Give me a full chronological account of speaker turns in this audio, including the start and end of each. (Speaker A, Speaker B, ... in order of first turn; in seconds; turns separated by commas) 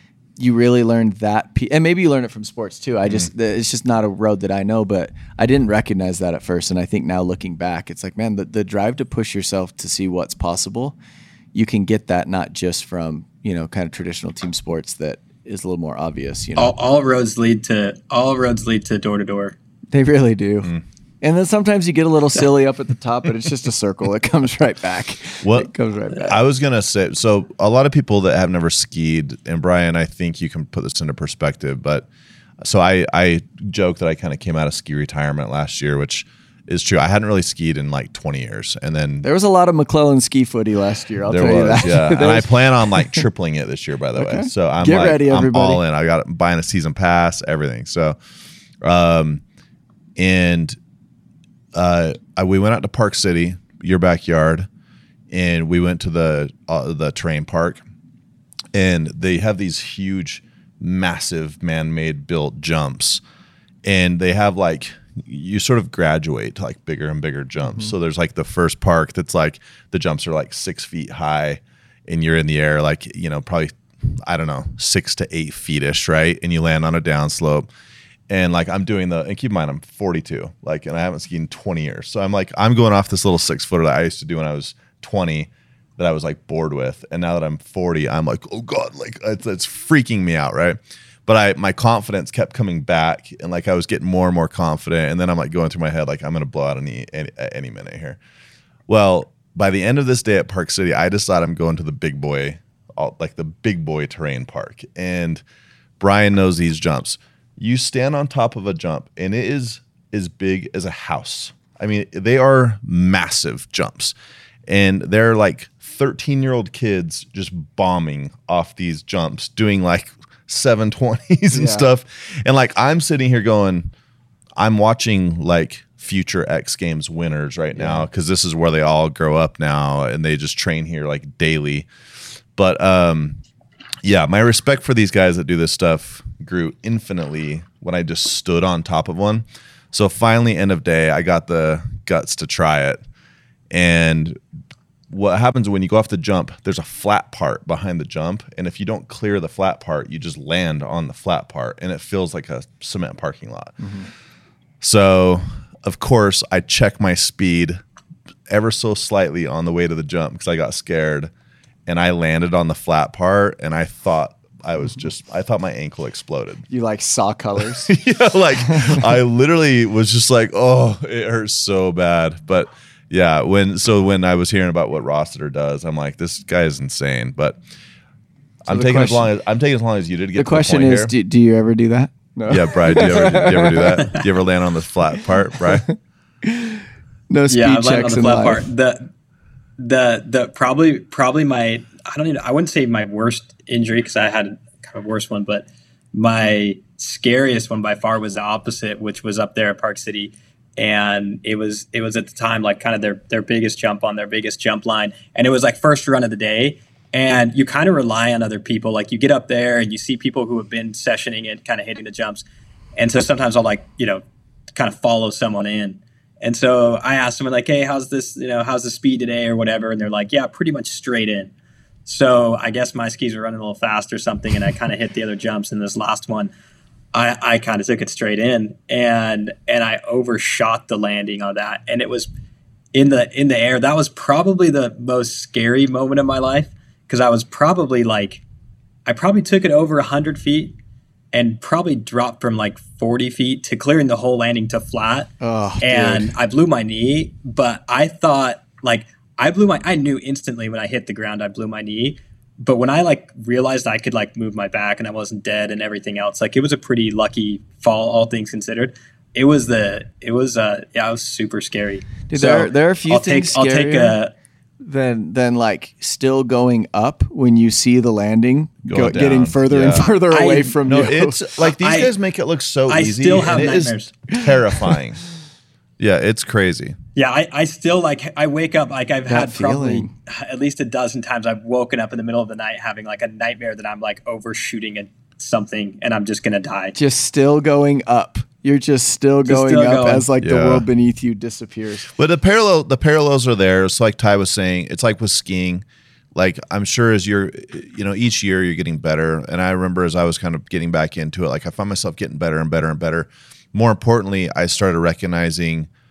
Speaker A: 0.4-10.9, Speaker A: 11.5-16.7, Speaker B: 16.6-19.5, Speaker A: 19.9-26.4, Speaker C: 25.4-32.1, Speaker C: 32.6-39.2, Speaker A: 39.2-43.2, Speaker C: 41.2-48.2, Speaker A: 44.1-45.8, Speaker C: 48.8-49.4, Speaker C: 50.2-50.8, Speaker C: 51.7-54.7, Speaker C: 55.3-57.8, Speaker C: 58.7-63.2, Speaker C: 63.8-77.7, Speaker C: 78.3-98.2, Speaker C: 98.9-105.4, Speaker C: 106.0-114.1, Speaker C: 114.7-123.9, Speaker A: 121.5-121.9, Speaker C: 124.5-131.9, Speaker A: 127.7-128.1, Speaker C: 132.5-133.4, Speaker C: 134.0-143.0, Speaker C: 143.7-144.4, Speaker C: 145.1-153.9, Speaker A: 153.8-154.1, Speaker C: 154.8-157.8, Speaker C: 158.5-161.3, Speaker C: 161.8-166.7, Speaker A: 166.7-167.9, Speaker C: 167.8-177.6, Speaker C: 178.6-181.1, Speaker A: 178.7-179.3, Speaker A: 180.3-184.1, Speaker C: 182.5-185.9, Speaker A: 185.8-188.6, Speaker B: 187.5-189.1, Speaker B: 189.8-212.4, Speaker B: 212.9-214.2, Speaker B: 214.7-221.5, Speaker B: 222.1-226.5, Speaker B: 227.1-232.3, Speaker B: 232.9-238.4, Speaker B: 239.1-240.7, Speaker B: 241.3-264.3, Speaker A: 245.4-246.3, Speaker A: 262.3-264.2, Speaker A: 264.8-271.4, Speaker C: 268.9-270.0, Speaker B: 270.0-270.8, Speaker C: 270.8-275.2, Speaker B: 271.8-272.1, Speaker B: 272.9-274.1, Speaker C: 276.0-276.9, Speaker B: 277.1-286.9, Speaker A: 279.3-280.1, Speaker A: 286.9-292.1, Speaker B: 289.5-290.3, Speaker C: 290.4-290.9, Speaker C: 292.1-305.9